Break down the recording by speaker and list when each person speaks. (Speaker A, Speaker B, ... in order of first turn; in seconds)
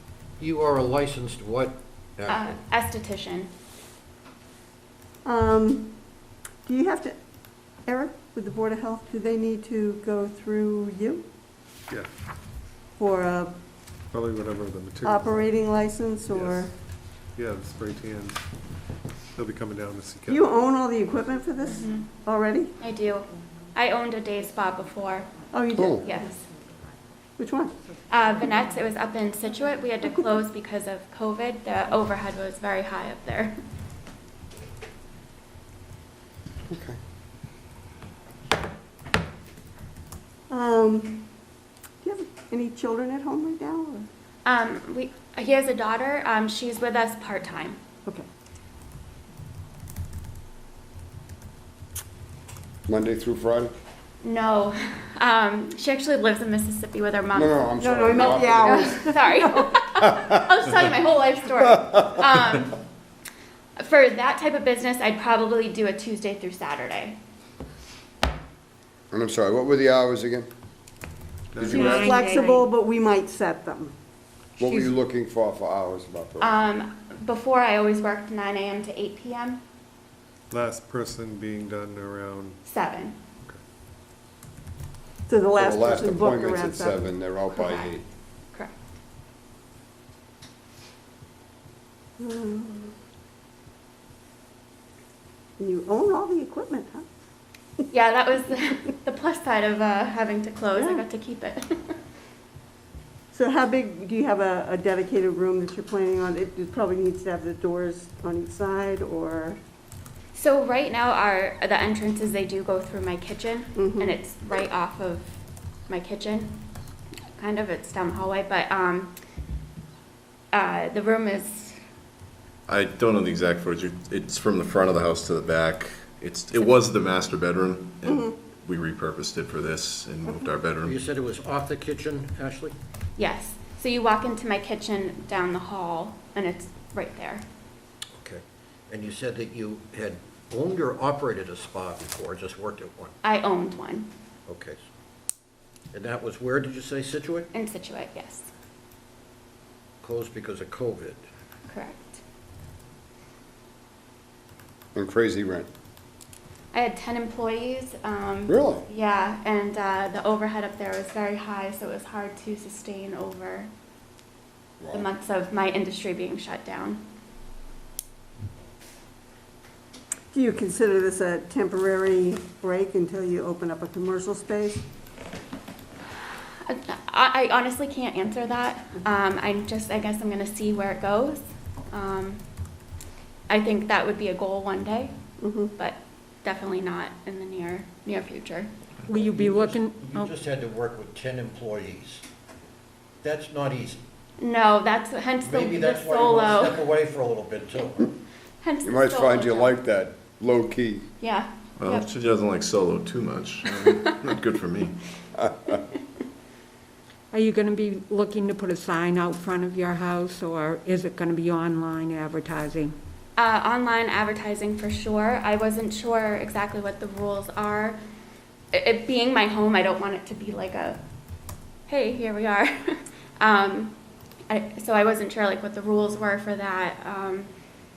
Speaker A: 0.4-2.5, 130.8-132.7, 138.2-143.1, 144.5-144.8, 145.9-147.5, 150.0-151.2, 189.3-192.2, 193.2-194.0, 195.4-198.1
Speaker B: 2.3-3.5, 21.7-22.1, 22.8-25.3, 26.0-26.4, 28.1-33.5, 44.4-47.8, 54.2-62.8, 63.8-67.2, 76.4-79.6, 82.6-83.2, 87.5-88.0, 97.9-102.0, 110.3-115.3, 115.9-116.6, 117.4-119.1, 120.5-121.8, 133.2-137.4, 143.2-144.1, 147.5-148.5, 151.7-152.2, 156.7-163.7, 164.9-167.0, 176.6-182.4, 183.5-185.1, 185.8-188.7, 194.4-196.8, 198.6-199.8, 201.2-202.1, 213.3-218.0, 218.7-221.0, 221.9-223.9, 224.5-227.5
Speaker C: 5.2-5.9, 6.7-7.1, 7.8-11.2, 13.0-13.5, 15.0-16.7, 20.3-22.7, 25.5-26.2, 27.4-27.7, 30.0-30.4, 40.5-41.3, 42.0-44.1, 57.8-59.8, 71.7-73.9, 85.3-87.2, 92.2-92.9, 95.6-97.0, 100.7-101.0, 103.3-109.6, 113.8-114.2, 170.3-174.8, 185.4-185.7
Speaker D: 14.1-15.5, 16.3-16.7, 17.3-18.4, 19.3-20.5, 71.5-71.8, 80.5-82.6
Speaker E: 25.7-26.0, 36.7-37.0, 52.9-53.7, 57.3-59.0, 69.1-70.5, 71.6-72.2, 74.6-76.5, 85.6-88.0, 154.9-155.7, 158.5-158.8, 164.8-165.1, 198.8-201.1, 205.3-205.8
Speaker F: 71.7-72.7, 74.6-75.0, 189.1-190.3, 207.3-212.9
Speaker G: 122.7-131.0, 201.8-204.9